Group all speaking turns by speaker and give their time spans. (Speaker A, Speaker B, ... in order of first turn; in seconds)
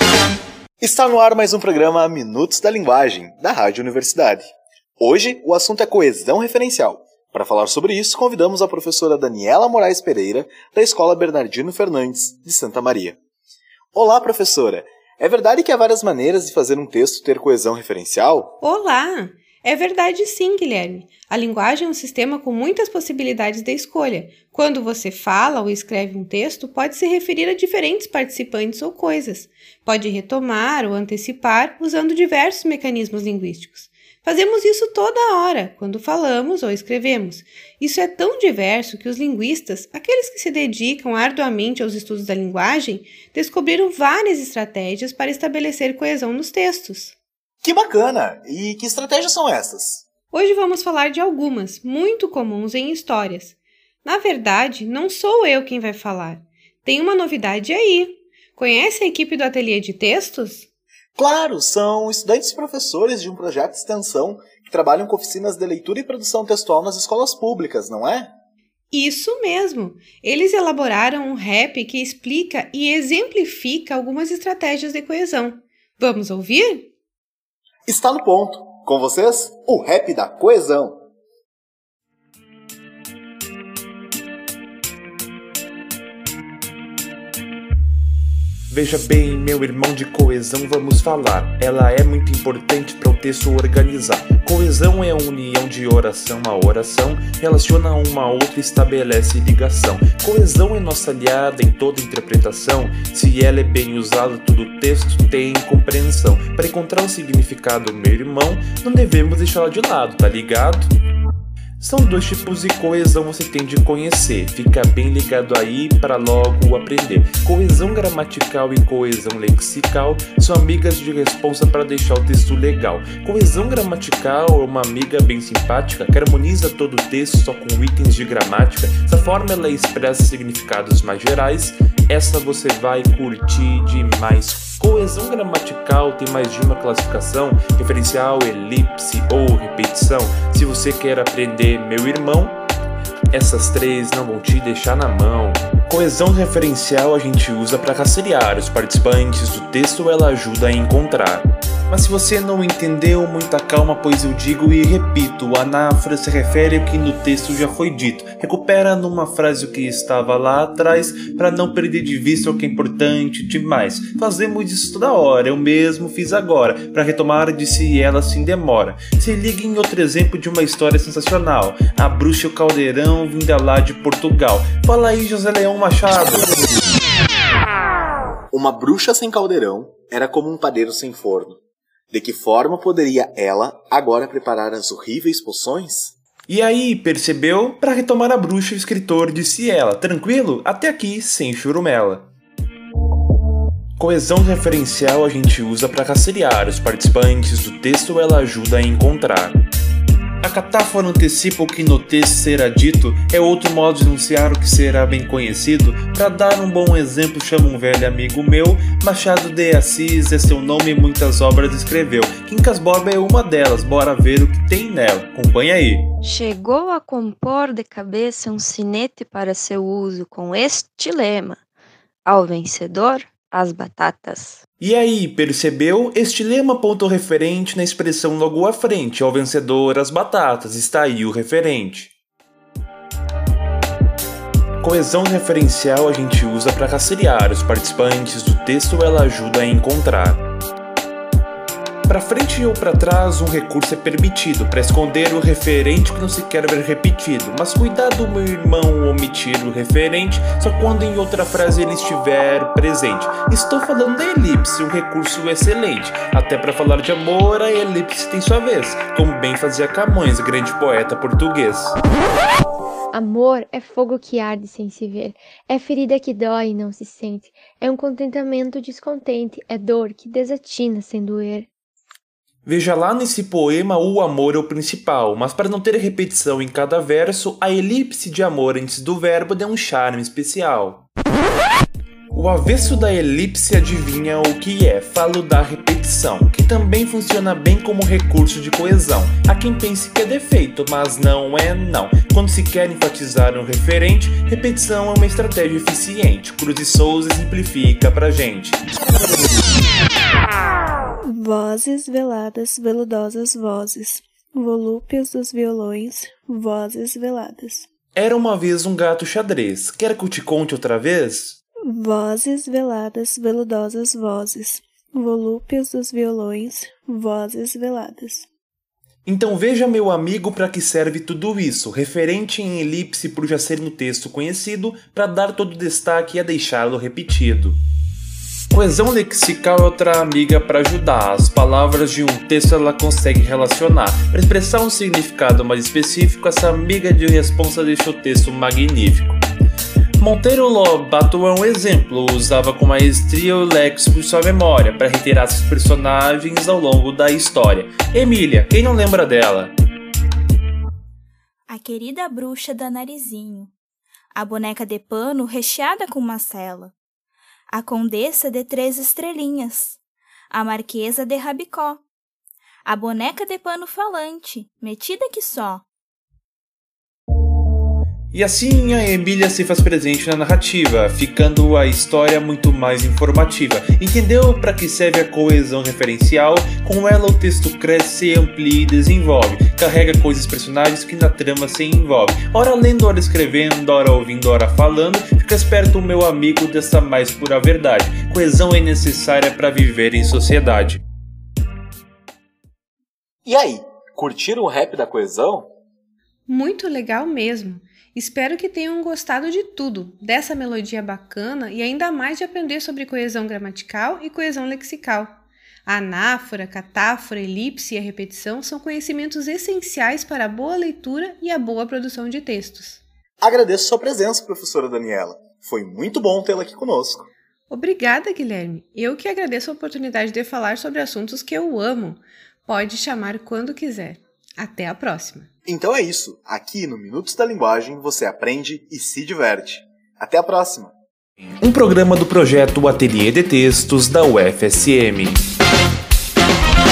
Speaker A: 0.8-4.4, 5.0-13.2, 13.9-18.6, 47.6-50.1, 61.1-68.3, 77.8-81.0, 178.5-181.6, 182.1-186.1, 393.4-395.7, 413.4-417.3, 425.6-430.9
Speaker B: 18.6-47.1, 50.3-60.7, 68.9-76.9, 396.5-413.0, 417.7-425.5
Speaker C: 88.7-110.9, 111.8-142.6, 143.3-176.5, 186.5-192.3, 194.0-199.6, 200.4-216.1, 224.8-232.1, 234.8-240.4, 242.1-262.0, 272.6-281.1, 282.3-298.8, 308.1-311.6, 319.2-327.8, 328.7-339.4, 340.2-349.7, 368.3-391.0, 431.6-435.4
Speaker D: 216.2-221.6, 222.2-224.6
Speaker E: 263.1-271.7
Speaker F: 301.2-307.9, 311.9-318.4
Speaker G: 351.7-353.7, 354.4-356.9, 357.7-359.9, 360.5-362.0, 362.9-365.8